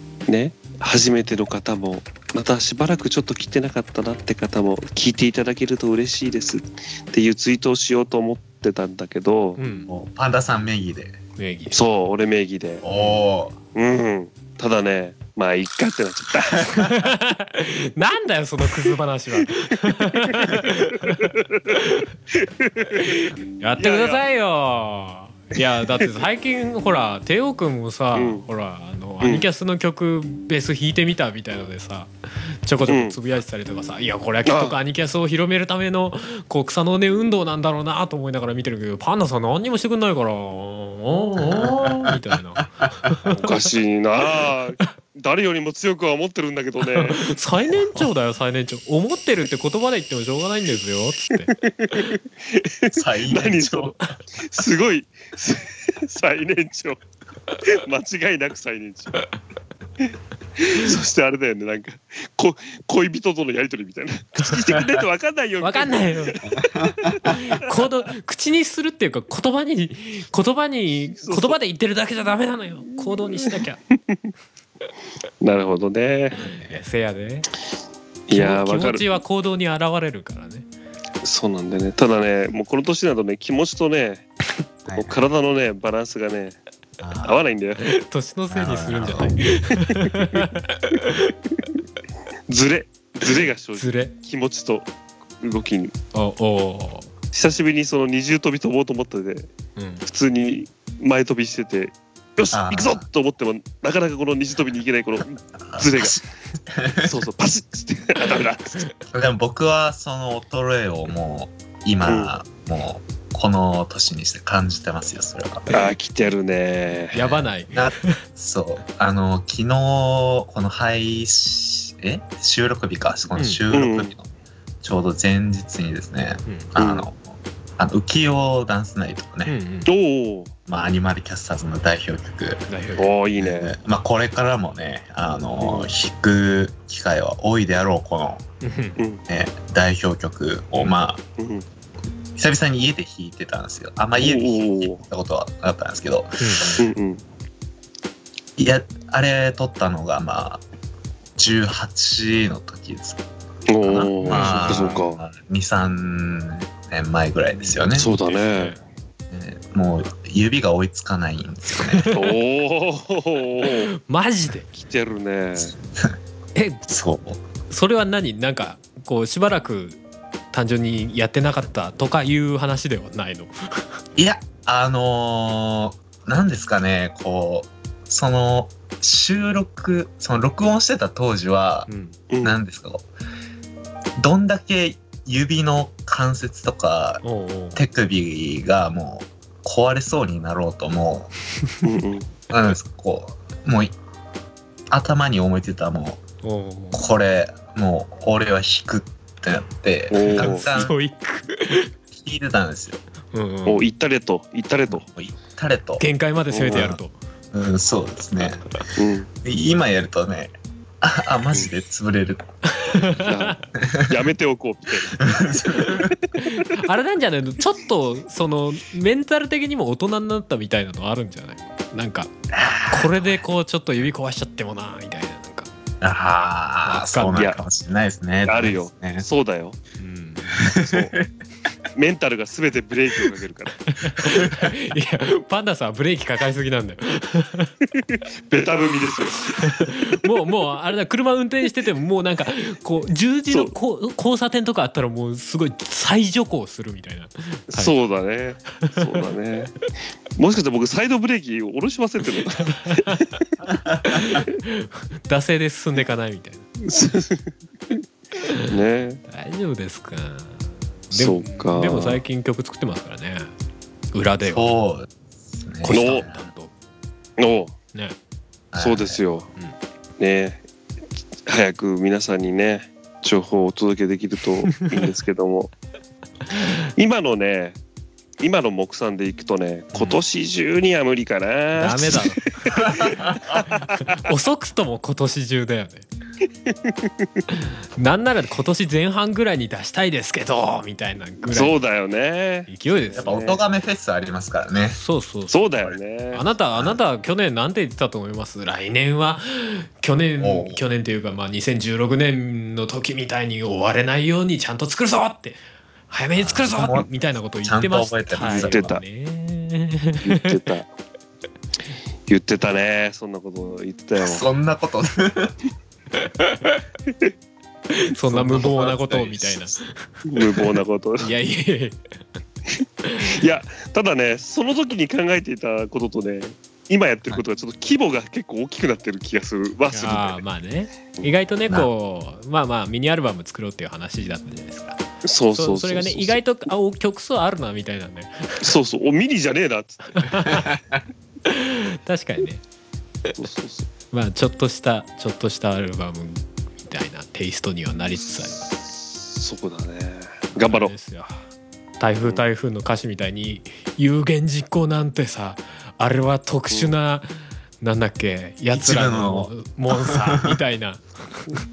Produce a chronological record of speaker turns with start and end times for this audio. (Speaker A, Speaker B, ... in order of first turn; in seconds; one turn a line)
Speaker A: 0.3-9.6
Speaker B: 9.6-9.9
Speaker C: 9.9-11.2
Speaker B: 11.4-11.8
Speaker A: 11.7-12.8
Speaker C: 12.8-13.5
Speaker B: 12.9-13.2
Speaker A: 13.7-16.8
Speaker B: 16.7-22.1
Speaker A: 20.3-21.7
Speaker A: 22.3-23.2
Speaker B: 22.9-32.1
Speaker A: 23.8-24.2
Speaker A: 28.1-28.5
Speaker A: 29.2-29.5
Speaker B: 32.6-43.6
Speaker A: 32.9-33.2
Speaker A: 34.5-34.8
Speaker C: 41.4-43.2
Speaker A: 43.4-47.3
Speaker B: 46.9-51.5
Speaker A: 51.5-57.0
Speaker C: 52.9-54.0
Speaker A: 57.7-59.2
Speaker A: 60.6-67.3
Speaker B: 65.6-66.4
Speaker C: 66.5-67.3
Speaker B: 67.2-73.8
Speaker A: 71.2-71.6
Speaker A: 73.0-73.6
Speaker A: 75.4-76.4
Speaker C: 76.3-76.8
Speaker B: 76.7-77.5
Speaker A: 78.3-79.0
Speaker B: 78.3-80.7
Speaker A: 81.2-84.3
Speaker C: 84.8-85.2
Speaker A: 85.0-86.6
Speaker C: 87.0-87.5
Speaker A: 87.2-87.9
Speaker B: 87.8-91.4
Speaker C: 88.5-89.4
Speaker A: 92.5-94.9
Speaker B: 93.8-94.1
Speaker A: 95.4-95.9
Speaker B: 96.1-97.1
Speaker A: 97.3-99.5
Speaker B: 99.8-100.0
Speaker A: 100.0-106.2
Speaker C: 102.5-103.0
Speaker C: 105.7-107.2
Speaker A: 107.0-108.8
Speaker C: 109.1-115.7
Speaker A: 112.1-112.3
Speaker A: 115.7-117.2
Speaker B: 117.1-118.2
Speaker C: 117.2-124.3
Speaker B: 123.4-123.6
Speaker A: 123.7-124.1
Speaker C: 124.8-127.2
Speaker B: 126.5-126.7
Speaker A: 126.8-127.1
Speaker C: 127.8-129.6
Speaker B: 129.4-129.9
Speaker A: 129.9-130.5
Speaker C: 130.7-132.7
Speaker B: 132.7-133.1
Speaker A: 133.0-133.8
Speaker C: 133.4-138.4
Speaker A: 135.6-135.9
Speaker B: 138.6-139.0
Speaker C: 139.3-141.2
Speaker A: 141.4-141.7
Speaker C: 142.4-146.8
Speaker A: 144.2-145.0
Speaker B: 146.4-146.8
Speaker A: 146.8-147.2
Speaker C: 148.6-150.6
Speaker C: 151.4-153.2
Speaker A: 153.7-155.2
Speaker C: 153.8-158.1
Speaker B: 154.2-155.0
Speaker B: 157.6-158.8
Speaker A: 157.9-158.8
Speaker C: 159.3-162.1
Speaker B: 162.0-162.3
Speaker A: 162.1-163.9
Speaker B: 163.7-164.7
Speaker A: 164.7-165.8
Speaker B: 166.6-166.8
Speaker C: 166.9-167.4
Speaker B: 167.7-170.0
Speaker B: 170.5-173.8
Speaker C: 174.2-181.9
Speaker B: 181.9-182.2
Speaker A: 182.3-182.6
Speaker C: 182.4-183.0
Speaker C: 184.2-187.2
Speaker B: 187.2-187.8
Speaker C: 187.7-191.3
Speaker A: 191.8-192.3
Speaker C: 192.5-193.9
Speaker C: 194.9-196.2
Speaker B: 196.4-197.0
Speaker C: 196.9-200.9
Speaker A: 200.1-200.7
Speaker B: 200.4-201.9
Speaker C: 202.1-203.0
Speaker B: 203.3-203.8
Speaker A: 203.7-205.1
Speaker C: 204.9-206.0
Speaker B: 206.0-207.2
Speaker A: 206.5-206.9
Speaker C: 206.7-207.0
Speaker C: 207.5-208.7
Speaker A: 209.0-209.3
Speaker C: 209.4-212.4
Speaker B: 212.7-213.6
Speaker A: 213.2-215.3
Speaker C: 213.8-214.2
Speaker C: 215.2-216.2
Speaker B: 216.4-222.3
Speaker C: 222.5-223.4
Speaker B: 222.9-225.7
Speaker C: 226.0-229.3
Speaker B: 226.8-227.4
Speaker A: 228.4-229.8
Speaker B: 230.0-230.5
Speaker C: 230.5-231.2
Speaker A: 230.8-231.2
Speaker A: 231.9-233.8
Speaker B: 233.9-237.7
Speaker C: 234.2-234.7
Speaker A: 238.2-240.0
Speaker B: 239.4-248.0
Speaker A: 247.7-253.4
Speaker B: 248.8-249.0
Speaker B: 252.6-253.3
Speaker C: 253.8-254.2
Speaker B: 254.0-256.7
Speaker A: 256.8-258.0
Speaker B: 258.4-258.7
Speaker A: 258.7-259.2
Speaker B: 259.3-263.5
Speaker A: 261.1-262.2
Speaker B: 264.1-264.8
Speaker C: 264.4-266.5
Speaker B: 265.8-266.7
Speaker A: 265.9-266.3
Speaker A: 267.4-267.8
Speaker C: 268.7-269.2
Speaker A: 268.8-269.5
Speaker A: 270.2-270.6
Speaker A: 271.5-275.7
Speaker A: 277.0-277.8
Speaker A: 278.4-284.0
Speaker B: 279.9-280.2
Speaker B: 281.8-282.9
Speaker C: 282.8-283.6
Speaker B: 283.6-286.1
Speaker A: 286.7-287.1
Speaker B: 288.0-291.8
Speaker A: 291.4-293.6
Speaker B: 292.7-293.4
Speaker C: 293.2-295.0
Speaker B: 294.9-295.6
Speaker A: 295.5-296.4
Speaker B: 296.3-310.5
Speaker C: 300.4-300.8
Speaker C: 306.4-307.1
Speaker C: 307.6-309.0
Speaker A: 308.4-309.0
Speaker A: 310.2-310.9
Speaker A: 312.3-314.4
Speaker C: 314.2-315.6
Speaker B: 316.2-316.8
Speaker B: 317.9-320.2
Speaker C: 318.2-319.8
Speaker A: 320.3-321.3
Speaker B: 321.2-322.0
Speaker B: 323.0-323.4
Speaker A: 323.2-330.4
Speaker B: 329.9-335.0
Speaker A: 335.2-336.4
Speaker B: 335.6-338.7
Speaker A: 338.6-340.3
Speaker B: 340.1-340.7
Speaker C: 340.7-341.0
Speaker B: 341.4-342.6
Speaker A: 343.4-343.9
Speaker B: 344.1-348.6
Speaker A: 348.5-350.9
Speaker B: 350.6-351.4
Speaker B: 352.0-361.5
Speaker C: 358.7-360.6